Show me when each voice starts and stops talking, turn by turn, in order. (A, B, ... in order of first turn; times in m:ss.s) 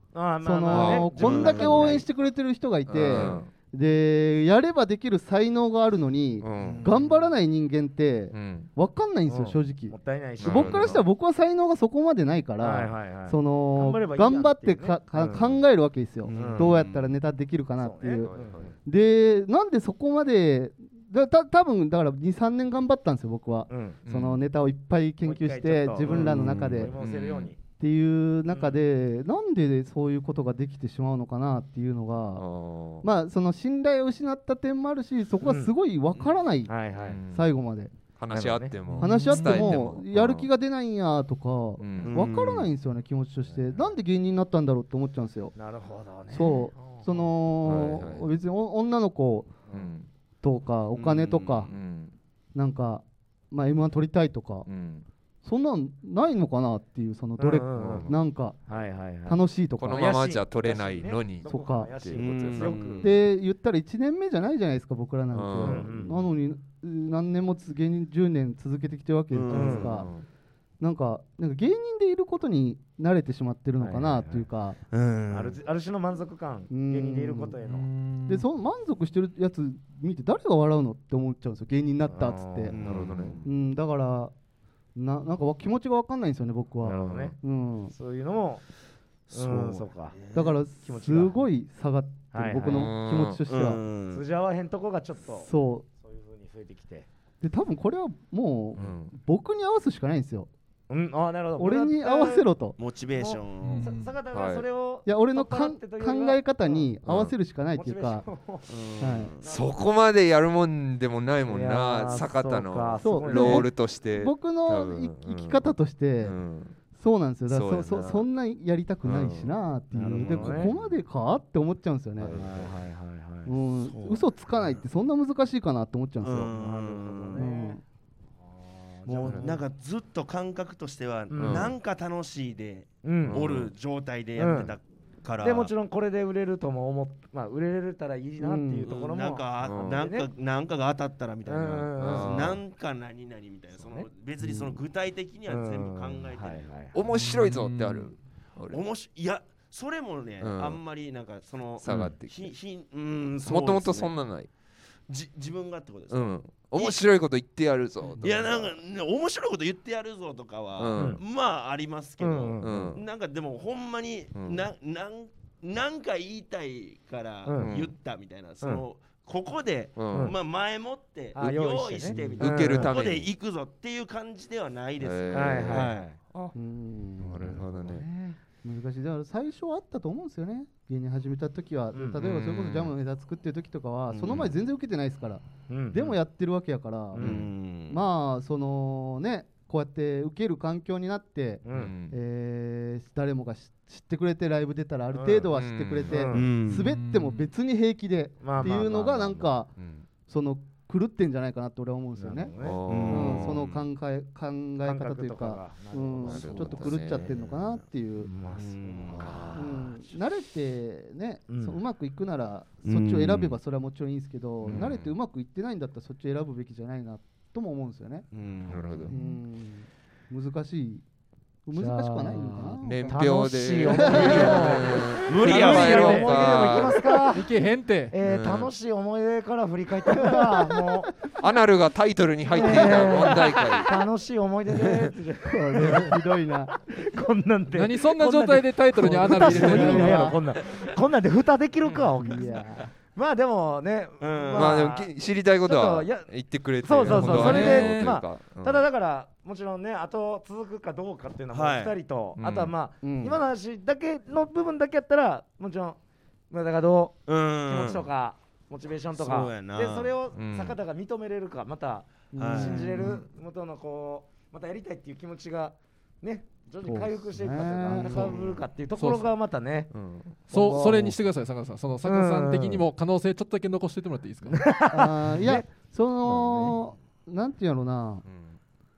0:00.1-0:02.1 A
0:00.4-0:18.3 B
0:00.7-0:01.2 C
0:01.2-0:01.9 D
0:02.9-0:03.5 C
0:03.1-0:03.4 A
0:06.4-0:06.8 C
0:06.6-0:06.9 D
0:06.8-0:07.2 A
0:08.3-0:08.7 C
0:09.3-0:11.0 A
0:10.4-0:11.0 C
0:12.6-0:15.6 A
0:16.3-0:17.0 D
0:16.3-0:16.8 A
0:17.8-0:18.7 A
0:18.2-0:18.7 C
0:18.8-0:26.9 B
0:23.7-0:24.0 A
0:24.0-0:24.4 C
0:25.2-0:27.6 A
0:26.1-0:27.5 C
0:27.8-0:32.4 B
0:28.5-0:28.8 A
0:32.4-0:33.1 C
0:33.0-0:36.7 B
0:35.4-0:35.7 A
0:36.7-0:37.2 A
0:37.0-0:37.5 C
0:37.3-0:37.9 B
0:38.2-0:40.5 C
0:38.3-0:38.7 A
0:38.9-0:39.7 E
0:39.0-0:45.5 B
0:41.8-0:42.2 C
0:42.0-0:42.7 D
0:45.5-0:47.3 A
0:46.3-0:49.5 B
0:47.6-0:48.3 C
0:49.7-0:50.1 C
0:50.4-0:51.7 B
0:51.6-0:52.1 C
0:52.5-0:54.7 B
0:54.6-0:55.0 C
0:55.4-0:58.6 B
0:57.4-0:58.1 A
0:58.7-0:59.4 A
0:59.2-1:00.2 B
0:59.8-1:02.8 C
0:59.9-1:03.1 A
1:01.4-1:01.9 B
1:02.1-1:03.1 D
1:03.0-1:10.1 B
1:05.3-1:05.9 C
1:05.6-1:06.2 A
1:09.3-1:10.0 D
1:09.5-1:09.9 A
1:09.9-1:10.2 C
1:10.8-1:14.8 B
1:13.8-1:14.5 A
1:14.9-1:15.6 D
1:15.3-1:17.9 A
1:16.7-1:17.6 B
1:17.6-1:18.4 E
1:18.2-1:22.8 B
1:22.1-1:22.7 A
1:22.7-1:23.4 D
1:22.8-1:23.4 C
1:23.4-1:24.3 B
1:24.9-1:27.9 B
1:26.8-1:27.4 A
1:27.9-1:28.6 A
1:29.3-1:30.5 D
1:29.3-1:30.3 A
1:30.3-1:33.8 B
1:30.8-1:31.4 A
1:32.3-1:32.9 A
1:32.7-1:33.4 C
1:33.5-1:34.2 D
1:34.1-1:37.1 A
1:35.3-1:35.8 B
1:37.4-1:40.5 B
1:38.8-1:39.1 C
1:40.9-1:42.5 A
1:41.6-1:42.8 B
1:42.8-1:43.9 D
1:43.1-1:46.9 A
1:43.6-1:44.2 E
1:44.3-1:44.6 C
1:45.0-1:48.2 B
1:47.0-1:47.3 C
1:47.8-1:48.8 A
1:48.7-1:49.5 D
1:49.0-1:49.3 B
1:49.4-1:49.8 A
1:49.4-1:55.7 C
1:51.5-1:53.7 A
1:53.0-1:56.4 B
1:56.2-1:56.8 C
1:56.9-2:02.4 B
1:57.5-1:58.2 C
1:59.0-1:59.5 C
1:59.9-2:00.7 A
2:00.1-2:01.0 C
2:02.2-2:02.8 C
2:02.3-2:03.5 A
2:03.4-2:06.5 B
2:03.8-2:04.7 D
2:06.2-2:07.5 D
2:06.5-2:07.8 A
2:07.3-2:07.8 B
2:08.4-2:09.6 A
2:09.1-2:15.7 D
2:09.1-2:09.6 B
2:11.3-2:11.7 A
2:11.4-2:11.7 C
2:13.0-2:13.4 A
2:13.2-2:13.7 C
2:14.4-2:14.7 A
2:15.4-2:20.3 A
2:18.4-2:18.9 B
2:18.9-2:26.8 D
2:19.6-2:20.0 C
2:21.4-2:22.5 A
2:22.0-2:22.6 C
2:23.8-2:24.1 A
2:24.4-2:24.7 B
2:25.5-2:27.0 A
2:26.9-2:28.8 C
2:27.1-2:28.1 E
2:28.7-2:34.1 D
2:30.4-2:30.8 C
2:31.8-2:32.5 C
2:33.4-2:34.5 C
2:35.1-2:37.0 D
2:36.1-2:38.7 C
2:38.2-2:56.1 D
2:40.8-2:41.2 C
2:41.0-2:41.2 A
2:42.2-2:42.9 A
2:42.6-2:43.0 C
2:44.3-2:44.6 C
2:47.4-2:47.8 A
2:47.6-2:47.9 C
2:50.0-2:50.3 C
2:50.1-2:50.4 A
2:51.3-2:52.9 A
2:52.4-2:53.3 C
2:55.0-2:55.9 C
2:55.3-2:56.5 A
2:56.5-2:57.6 B
2:57.2-2:58.0 C
2:57.7-2:58.4 A
2:58.6-3:19.7 B
3:01.9-3:02.2 A
3:02.2-3:02.9 C
3:05.7-3:06.2 A
3:07.1-3:07.4 A
3:07.2-3:08.0 D
3:07.2-3:07.5 C
3:11.6-3:11.9 A
3:11.7-3:12.2 C
3:15.1-3:15.5 A
3:15.5-3:16.3 C
3:16.1-3:16.5 A
3:16.3-3:16.9 D
3:16.7-3:17.5 E
3:18.4-3:19.5 A
3:19.8-3:20.0 C
3:20.3-3:22.5 B
3:22.2-3:22.8 A
3:22.6-3:23.6 C
3:22.9-3:23.8 D
3:23.0-3:28.3 B
3:24.8-3:27.0 A
3:26.2-3:27.4 C
3:27.1-3:27.4 D
3:28.2-3:30.2 A
3:28.5-3:29.4 D
3:29.2-3:29.8 C
3:29.5-3:38.2 B
3:31.5-3:31.8 A
3:32.8-3:33.6 D
3:34.6-3:34.9 A
3:34.7-3:35.1 C
3:38.3-3:39.1 D
3:38.7-3:39.1 C
3:39.1-3:41.0 B
3:41.6-3:43.2 B
3:41.7-3:47.5 A
3:42.8-3:47.2 C
3:44.0-3:45.0 B
3:45.2-3:46.8 D
3:47.3-3:48.1 E
3:48.1-3:51.1 A
3:48.2-3:48.7 C
3:50.1-3:50.9 B
3:51.4-3:53.9 C
3:52.5-4:02.6 A
3:52.6-3:53.2 B
3:55.4-3:56.7 B
3:57.7-4:00.3 E
3:59.2-4:00.4 B
4:01.8-4:02.6 C
4:02.2-4:02.9 B
4:03.1-4:16.0 A
4:04.2-4:04.9 D
4:04.5-4:08.8 C
4:07.0-4:08.2 E
4:11.5-4:11.9 D
4:12.4-4:12.7 C
4:13.0-4:13.4 B
4:16.5-4:29.9 A
4:17.3-4:18.0 D
4:19.2-4:20.1 D
4:20.3-4:20.8 C
4:22.3-4:23.2 B
4:22.4-4:22.9 D
4:26.8-4:28.4 B
4:27.9-4:28.5 D
4:29.0-4:29.3 E
4:29.9-4:30.4 C
4:30.5-4:34.8 E
4:30.5-4:31.0 A
4:30.5-4:31.2 B
4:32.0-4:32.9 A
4:34.5-4:35.6 A
4:34.9-4:38.2 B
4:36.2-4:36.8 A
4:38.2-4:38.5 C